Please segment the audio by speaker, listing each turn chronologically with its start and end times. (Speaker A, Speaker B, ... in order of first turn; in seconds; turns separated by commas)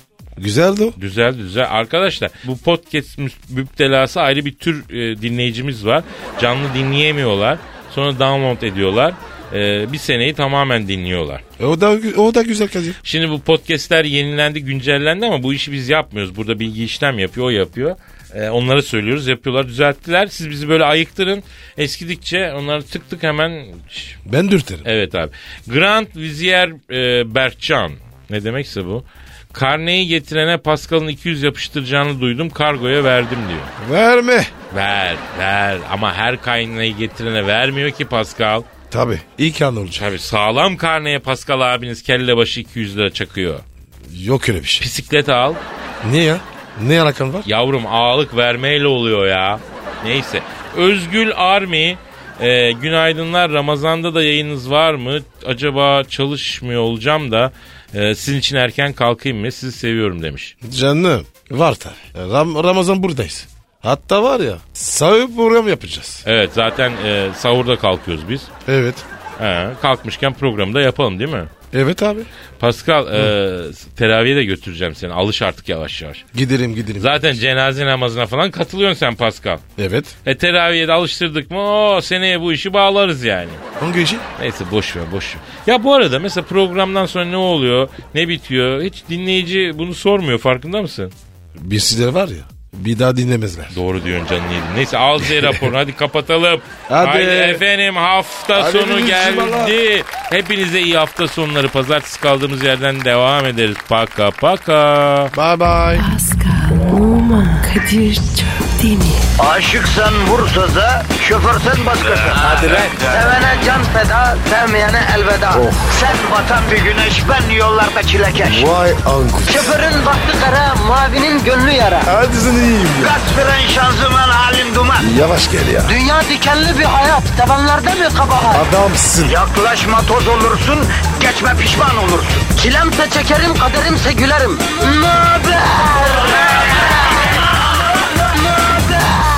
Speaker A: 0.4-1.0, Speaker B: 1.0-11.4, Speaker A: 11.6-13.0, Speaker B: 13.0-24.2, Speaker A: 24.3-24.9, Speaker B: 24.9-33.7, Speaker A: 33.8-34.5, Speaker B: 34.7-38.7, Speaker A: 38.9-40.0, Speaker B: 39.9-43.6, Speaker A: 44.1-44.9, Speaker B: 44.8-45.6, Speaker A: 46.0-47.5, Speaker B: 47.5-60.5, Speaker A: 60.6-66.2, Speaker B: 66.2-68.5, Speaker A: 68.7-69.0, Speaker B: 69.4-71.5, Speaker A: 71.7-72.3, Speaker B: 72.6-76.2, Speaker A: 76.3-77.4, Speaker B: 77.0-79.6, Speaker A: 79.8-80.1, Speaker B: 80.2-83.6, Speaker A: 83.8-84.3, Speaker B: 84.4-91.1, Speaker A: 91.6-93.8, Speaker B: 93.7-105.3, Speaker A: 95.2-95.6, Speaker A: 96.9-97.6, Speaker A: 98.5-99.8, Speaker A: 105.3-106.1, Speaker C: 106.0-109.3, Speaker D: 109.4-118.7, Speaker A: 115.5-116.0, Speaker A: 118.4-119.8, Speaker D: 119.5-122.1, Speaker A: 122.1-123.2, Speaker D: 123.0-125.1, Speaker A: 125.0-126.0, Speaker D: 125.8-128.7, Speaker A: 128.5-129.4, Speaker D: 129.2-137.2, Speaker D: 138.4-139.3